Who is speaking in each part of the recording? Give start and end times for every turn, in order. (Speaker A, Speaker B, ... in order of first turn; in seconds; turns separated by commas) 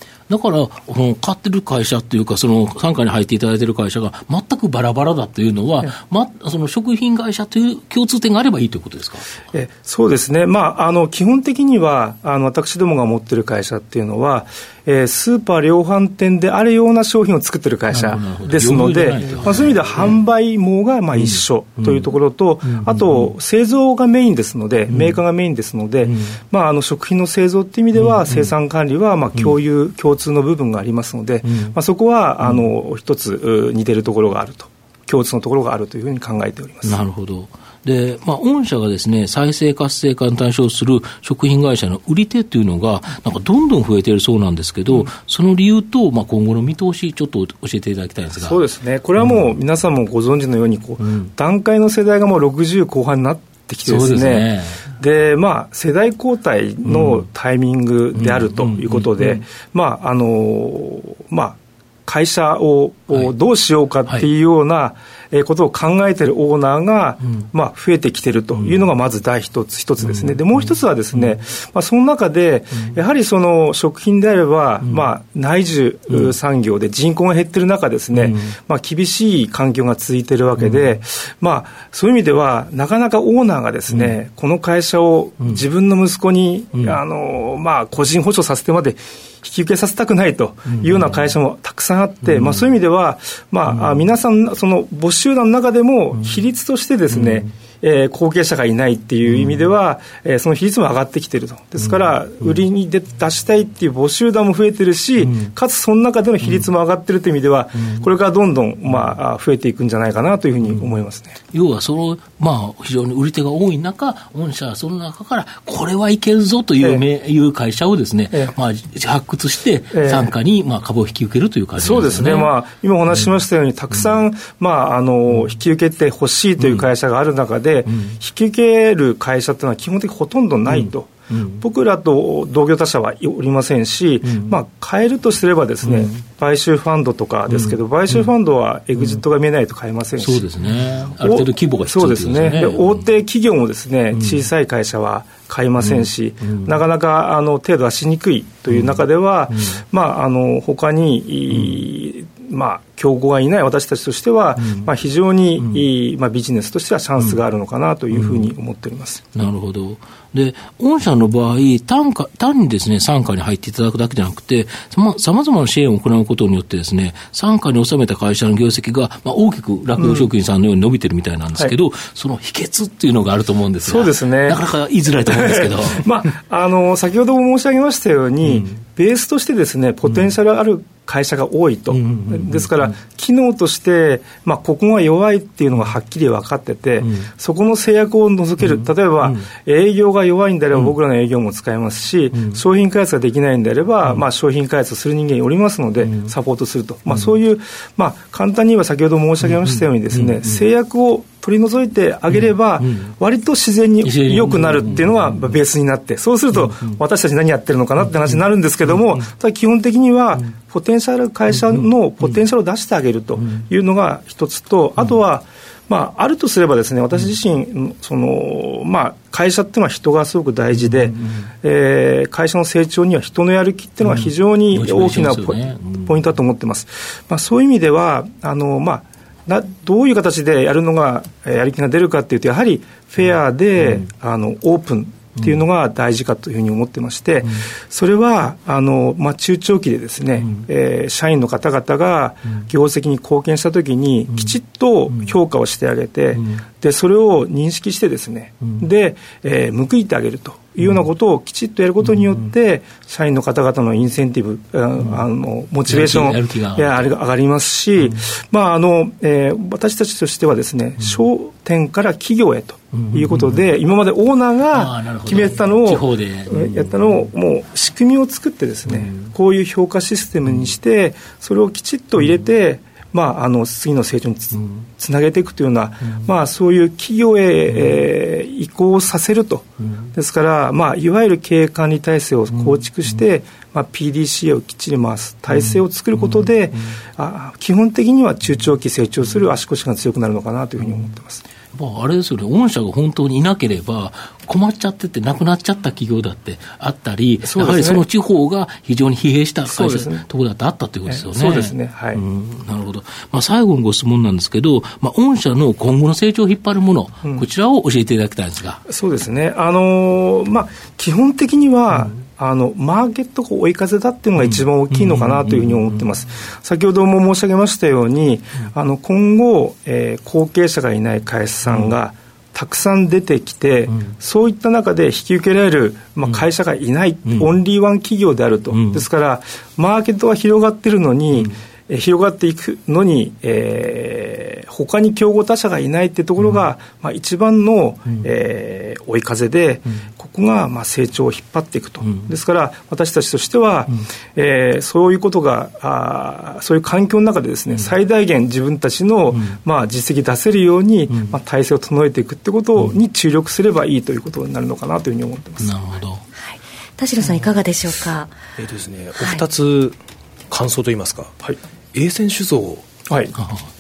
Speaker A: 0.3-9.3, Speaker B: 9.5-37.0, Speaker A: 17.9-20.2, Speaker A: 21.2-22.1, Speaker A: 22.6-23.3, Speaker A: 24.9-25.2, Speaker A: 26.1-26.4, Speaker A: 28.0-28.5, Speaker A: 31.5-31.8, Speaker A: 36.8-48.6, Speaker B: 48.4-111.4, Speaker A: 51.0-51.3, Speaker A: 53.9-54.9, Speaker A: 56.9-57.2, Speaker A: 58.2-59.4, Speaker A: 90.7-91.2, Speaker A: 92.3-92.6, Speaker A: 93.7-94.0, Speaker A: 111.5-122.5, Speaker B: 116.8-117.0, Speaker B: 119.9-120.3, Speaker B: 121.8-140.5, Speaker A: 126.6-126.9, Speaker A: 130.7-131.6, Speaker A: 140.2-143.0, Speaker B: 141.2-159.2, Speaker A: 145.8-146.8, Speaker A: 148.7-149.0, Speaker A: 158.2-158.5, Speaker A: 159.3-176.1, Speaker B: 170.0-170.3, Speaker B: 173.8-174.6, Speaker B: 175.2-291.4, Speaker A: 182.1-182.6, Speaker A: 199.6-200.6, Speaker A: 204.0-205.5, Speaker A: 221.2-221.4, Speaker A: 224.0-226.2, Speaker A: 255.9-257.1, Speaker A: 262.9-263.6, Speaker A: 264.7-266.8, Speaker A: 291.7-308.8, Speaker B: 297.4-298.1, Speaker B: 299.7-300.3, Speaker B: 301.1-302.2, Speaker B: 308.9-355.8, Speaker A: 315.4-315.8, Speaker A: 328.7-329.1, Speaker A: 355.6-356.2, Speaker C: 356.4-358.3, Speaker D: 358.6-360.0, Speaker D: 360.5-361.3, Speaker D: 361.9-362.8, Speaker B: 363.1-363.3, Speaker A: 363.4-363.7